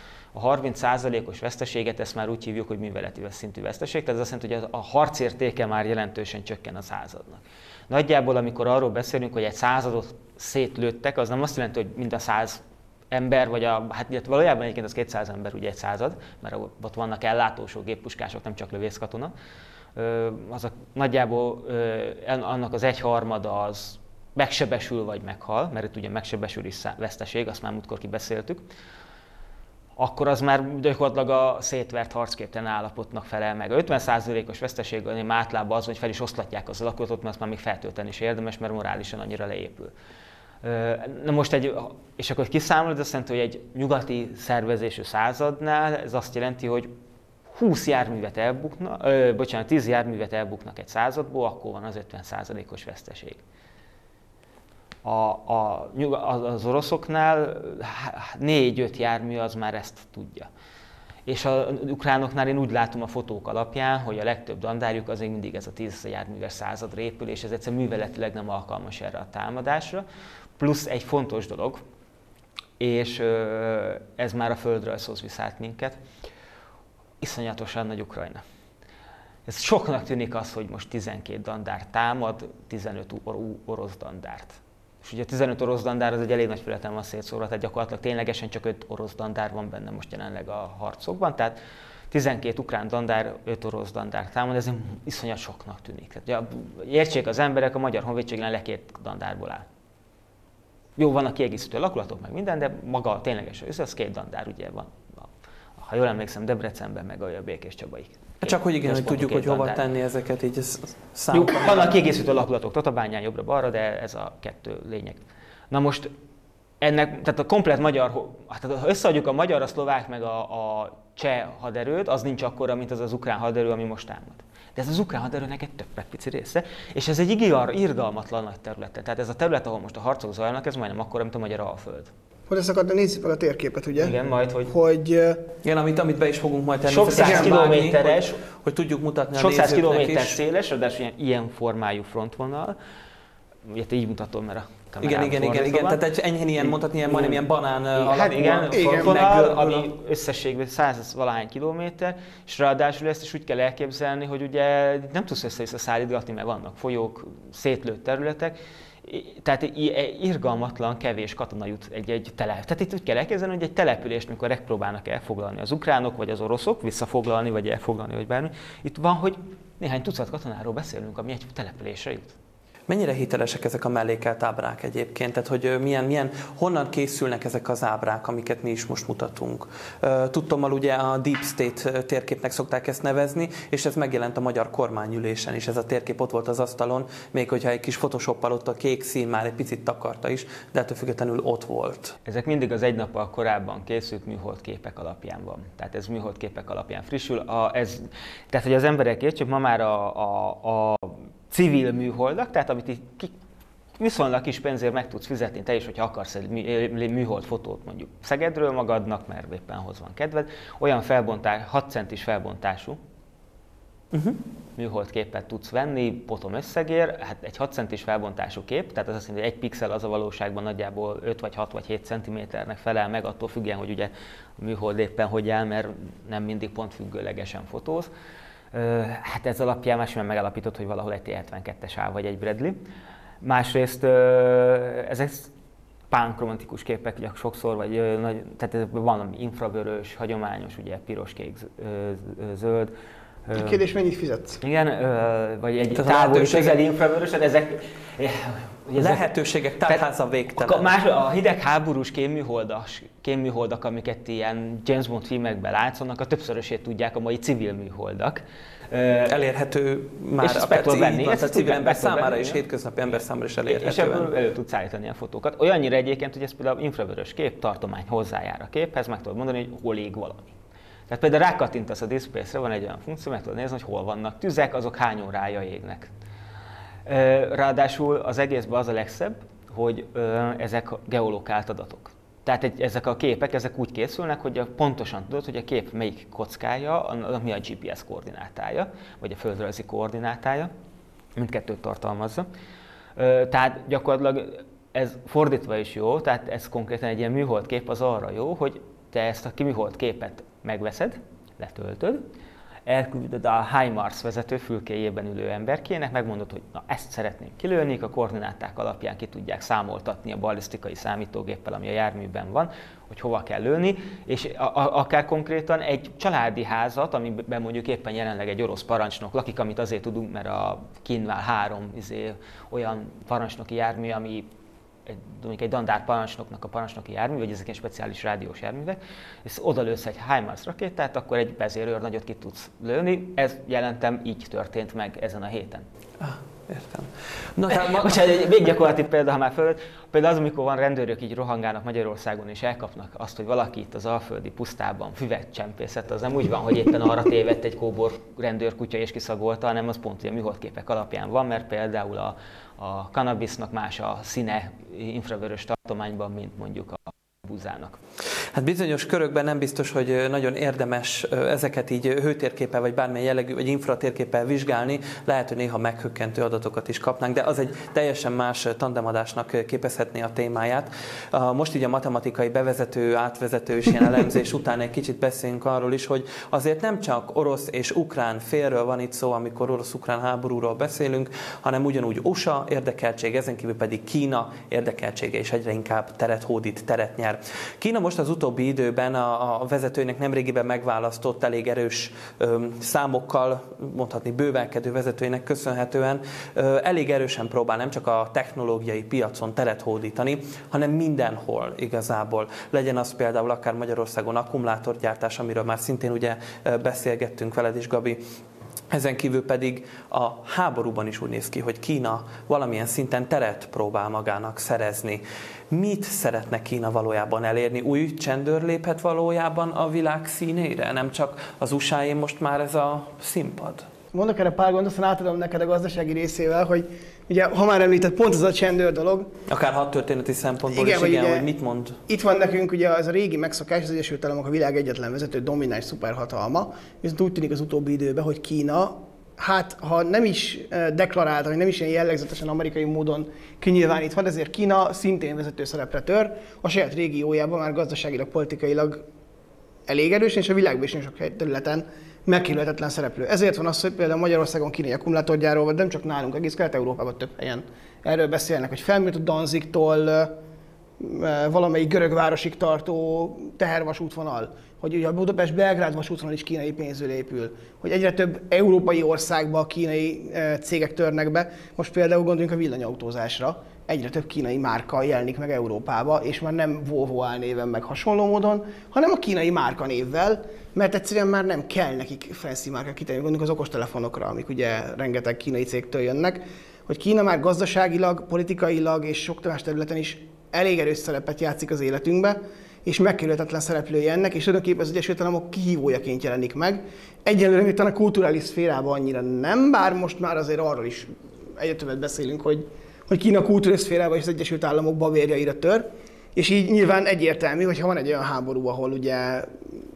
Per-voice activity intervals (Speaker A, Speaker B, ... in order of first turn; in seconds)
Speaker A: 0.3-19.3, 20.0-28.7, 30.0-39.9, 40.6-46.9, 47.5-53.4, 55.0-60.5, 61.3-70.0, 70.6-71.8, 72.8-76.0, 77.2-78.4, 79.5-91.6, 92.1-99.7, 101.0-105.3, 105.8-109.8, 111.3-116.1, 116.8-132.1, 134.0-134.7, 136.9-138.4, 139.3-142.8, 143.7-146.0, 146.6-147.4, 148.0-172.3, 192.3-203.3, 204.0-213.0, 214.8-228.1, 228.7-232.8, 233.4-235.5, 236.1-242.9, 243.5-243.8, 244.6-249.2, 249.8-259.3, 260.4-262.6, 263.7-270.5, 271.1-276.1, 277.1-290.7, 291.4-292.5, 293.2-302.2, 302.9-324.5, 325.1-335.9, 337.7-358.0
Speaker B: 108.4-111.9, 135.6-140.4, 145.0-149.9, 172.9-192.2, 214.1-214.4, 245.9-246.8, 249.0-250.9, 259.2-264.3, 336.2-338.4, 358.5-408.2, 408.9-423.9, 429.5-432.0
Speaker C: 132.5-134.2, 134.7-135.4, 137.1-137.6, 148.7-149.2, 243.5-244.6, 424.1-429.3, 430.7-431.5, 432.1-449.0, 449.9-460.4, 461.0-509.8